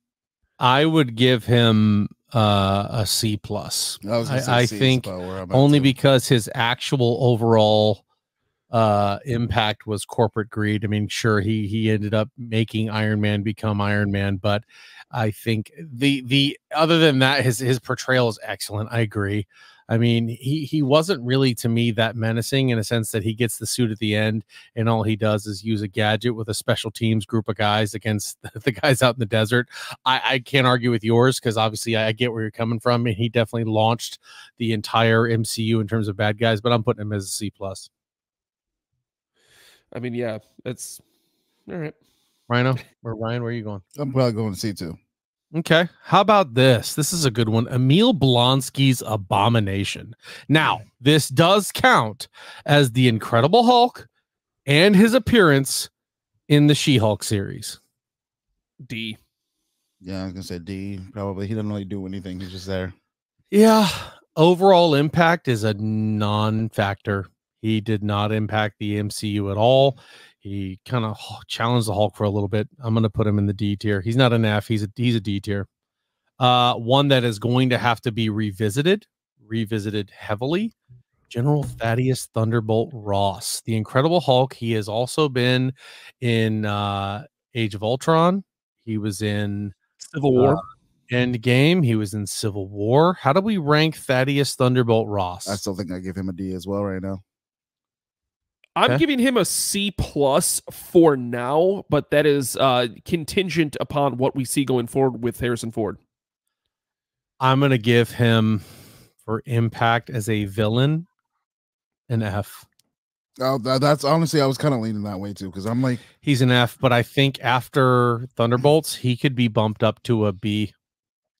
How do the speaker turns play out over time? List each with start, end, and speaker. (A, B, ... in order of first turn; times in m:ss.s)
0:00.6-0:08.0 A
0:04.0-0:05.9 B
0:08.7-0:37.9 A
0:39.9-0:41.0 C
0:41.7-0:42.0 C
0:42.5-0:43.8 A
0:44.0-0:45.0 B
0:45.5-0:54.1 A
0:54.6-0:55.9 A
0:56.5-0:57.8 A
0:58.8-0:59.2 C
1:00.0-1:02.9 B
1:03.5-1:15.7 A
1:16.4-1:20.7 A
1:21.3-1:29.8 A
1:30.0-1:30.6 C
1:30.3-1:35.6 A
1:35.5-1:37.2 B
1:38.8-1:46.0 C
1:47.4-1:48.6 A
1:49.2-1:51.1 A
1:52.1-1:52.7 A
1:53.4-1:56.0 B
1:56.2-2:00.7 A